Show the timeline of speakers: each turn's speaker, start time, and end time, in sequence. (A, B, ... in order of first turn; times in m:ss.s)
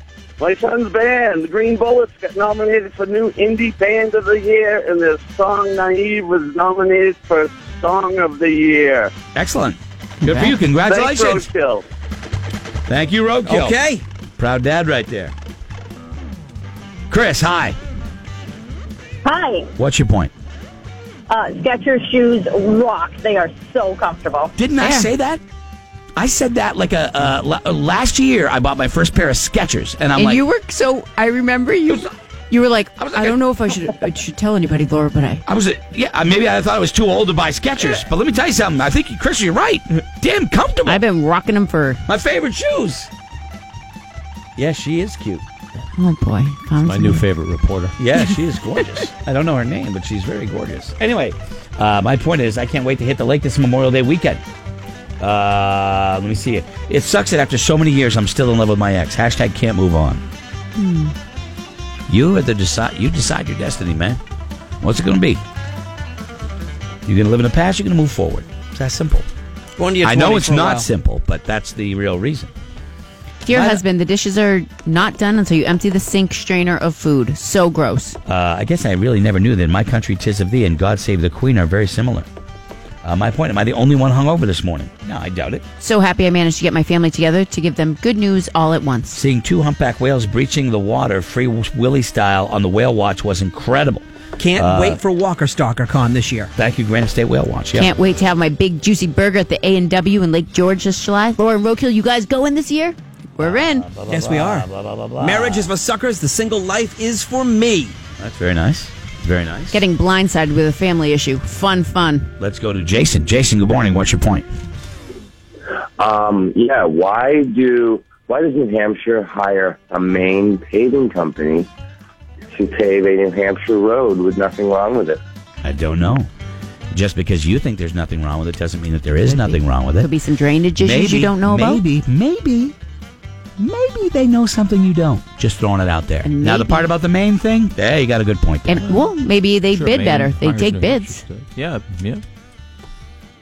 0:00.4-0:09.1 A
0:09.3-0:11.5 B
0:10.3-0:11.8 A
0:12.9-0:13.8 B
0:13.4-0:14.0 C
0:14.4-0:15.3 B
0:17.1-0:17.8 B
0:19.2-0:19.7 D
0:19.8-0:20.3 B
0:21.3-0:24.5 D
0:24.6-0:25.4 B
0:26.2-0:30.4 B
0:30.2-0:35.4 E
0:33.0-0:33.4 B
0:35.5-0:41.0 B
0:40.8-0:42.0 E
0:42.1-0:43.1 B
0:44.6-0:45.4 B
0:46.0-0:47.2 E
0:46.8-0:47.9 F
0:48.0-0:54.4 B
0:55.2-1:00.2 B
1:00.8-1:01.1 E
1:02.1-1:04.2 B
1:04.8-1:05.4 B
1:07.0-1:09.3 B
1:09.8-1:10.9 C
1:10.0-1:12.5 B
1:13.4-1:18.2 E
1:13.5-1:13.8 C
1:18.3-1:22.3 B
1:23.0-1:25.6 B
1:25.8-1:29.2 E
1:29.1-1:35.0 B
1:34.4-1:36.5 C
1:36.6-1:37.9 B
1:37.7-1:43.8 E
1:43.4-1:45.7 B
1:44.1-1:44.6 C
1:45.2-1:48.0 C
1:48.2-1:49.8 B
1:49.7-1:52.3 E
1:52.4-1:54.5 B
1:56.0-2:01.7 G
2:02.5-2:05.2 G
2:05.6-2:06.3 B
2:06.9-2:10.1 B
2:09.3-2:11.8 E
2:10.8-2:12.7 B
2:13.6-2:18.8 B
2:16.2-2:16.9 E
2:18.7-2:21.2 E
2:19.7-2:22.2 F